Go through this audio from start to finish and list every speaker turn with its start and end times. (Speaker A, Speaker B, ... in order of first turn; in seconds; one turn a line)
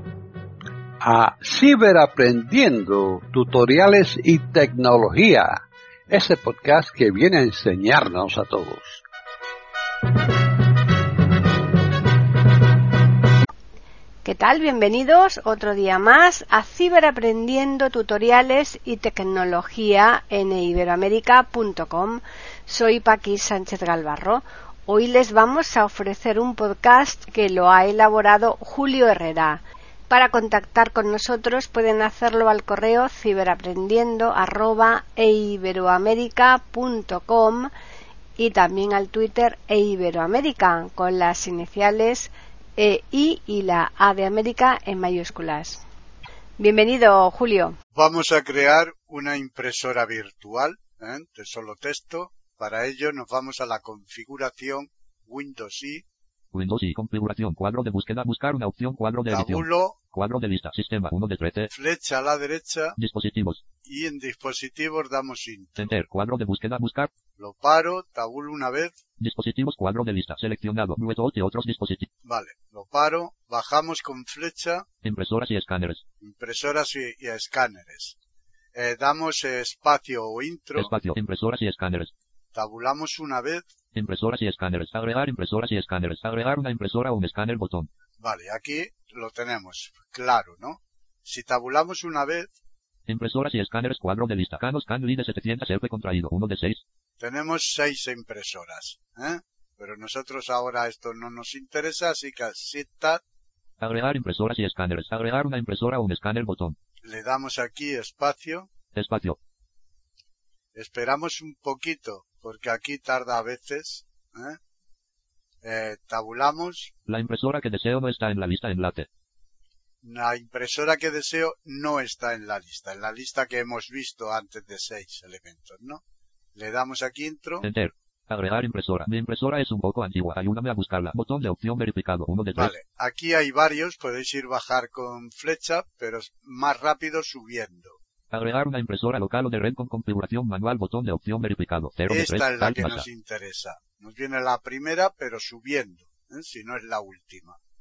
Speaker A: 1.0-9.0
Speaker B: 14.2-37.7
Speaker B: 38.4-45.8
Speaker B: 46.6-47.8
Speaker C: 47.9-56.0
Speaker D: 56.5-61.7
Speaker C: 59.3-60.0
Speaker C: 61.7-63.0
Speaker D: 63.0-63.6
Speaker C: 63.8-66.0
Speaker D: 65.8-67.1
Speaker C: 67.4-68.9
Speaker D: 69.2-72.1
Speaker C: 72.2-74.8
Speaker D: 75.0-76.0
Speaker C: 76.2-78.2
Speaker C: 78.7-80.9
Speaker D: 80.7-82.1
Speaker C: 82.5-83.7
Speaker D: 83.9-87.9
Speaker C: 88.2-92.5
Speaker D: 93.1-96.8
Speaker C: 97.2-103.2
Speaker D: 103.8-106.8
Speaker C: 107.0-108.7
Speaker D: 108.9-109.4
Speaker C: 110.7-114.6
Speaker C: 115.6-116.9
Speaker D: 117.1-119.1
Speaker C: 120.0-126.0
Speaker C: 126.5-127.7
Speaker D: 127.6-132.7
Speaker C: 132.5-138.0
Speaker D: 138.3-143.1
Speaker C: 142.1-147.6